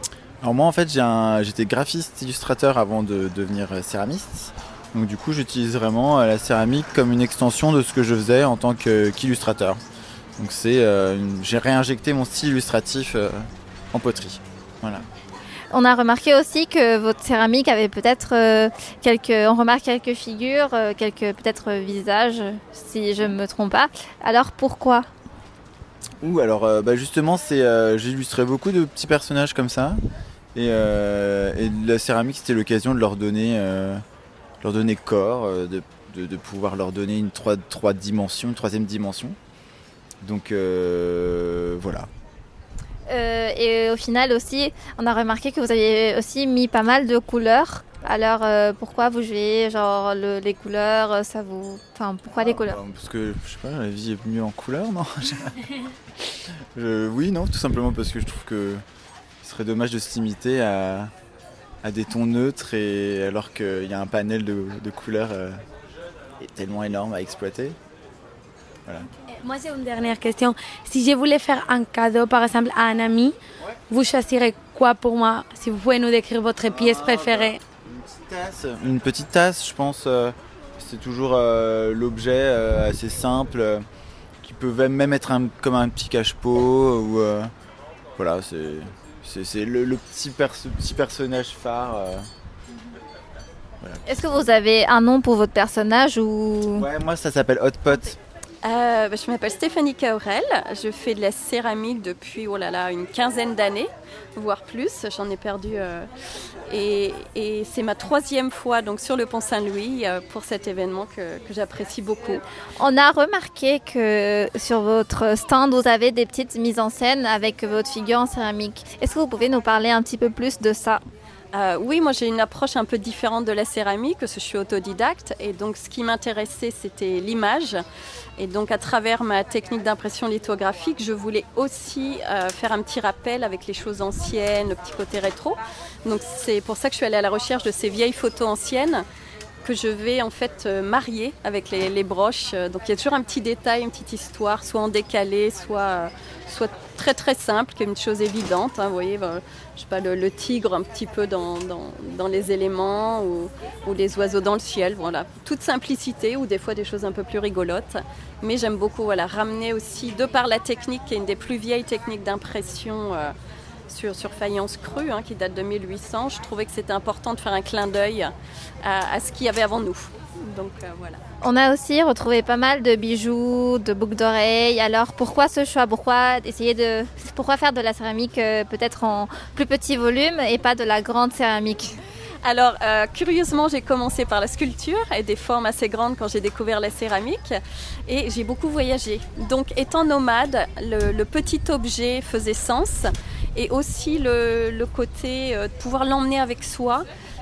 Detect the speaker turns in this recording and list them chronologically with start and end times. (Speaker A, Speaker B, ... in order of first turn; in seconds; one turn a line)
Speaker A: 0.4-9.8
Speaker A: 10.4-15.0
Speaker B: 15.7-25.1
Speaker A: 26.2-30.0
Speaker A: 30.5-34.0
Speaker A: 34.6-39.4
Speaker A: 40.2-42.1
Speaker B: 43.1-52.8
Speaker A: 52.4-55.6
Speaker A: 56.6-58.8
Speaker A: 59.4-61.1
Speaker A: 61.8-65.6
Speaker A: 66.4-67.8
Speaker C: 69.4-73.3
Speaker C: 73.9-77.6
Speaker A: 76.6-83.8
Speaker A: 84.4-87.5
Speaker A: 88.2-92.3
Speaker A: 93.8-94.5
Speaker B: 94.0-96.9
Speaker A: 96.8-98.2
Speaker D: 98.6-106.1
Speaker D: 106.7-112.4
Speaker B: 112.8-121.0
Speaker D: 121.5-127.8
Speaker D: 128.4-139.0
Speaker D: 139.6-163.3
Speaker D: 163.9-171.2
Speaker B: 171.4-181.9
Speaker D: 182.4-197.1